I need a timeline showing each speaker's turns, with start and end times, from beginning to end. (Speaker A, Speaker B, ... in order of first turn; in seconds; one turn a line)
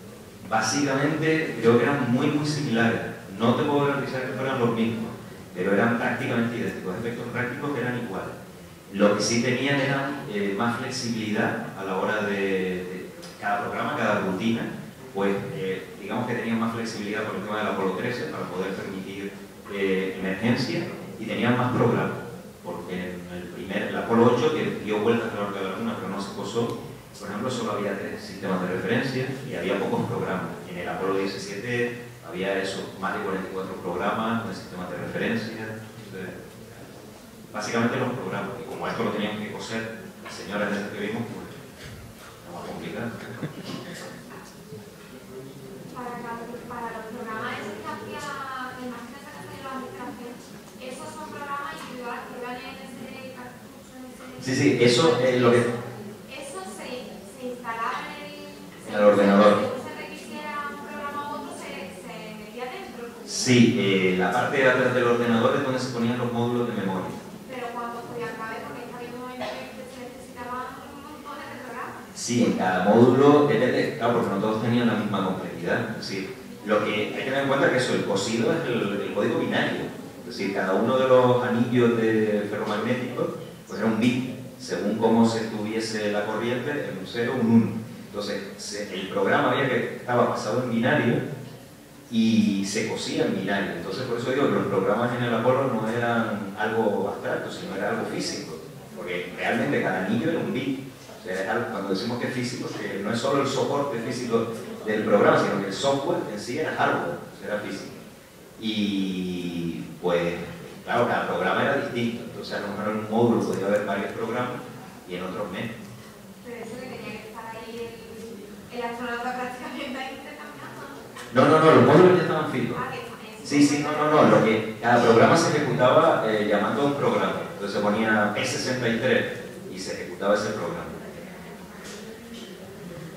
Speaker A: 0.4-8.3
Speaker A: 8.9-36.4
Speaker A: 37.5-41.5
Speaker A: 42.4-43.3
Speaker B: 45.9-63.5
Speaker A: 54.4-55.7
Speaker A: 58.9-59.6
Speaker A: 63.2-67.2
Speaker B: 67.5-72.0
Speaker A: 72.1-91.2
Speaker A: 92.1-108.0
Speaker A: 108.6-115.7
Speaker B: 116.4-121.0
Speaker A: 121.3-122.8
Speaker B: 121.7-122.0
Speaker B: 122.7-124.4
Speaker A: 123.4-131.0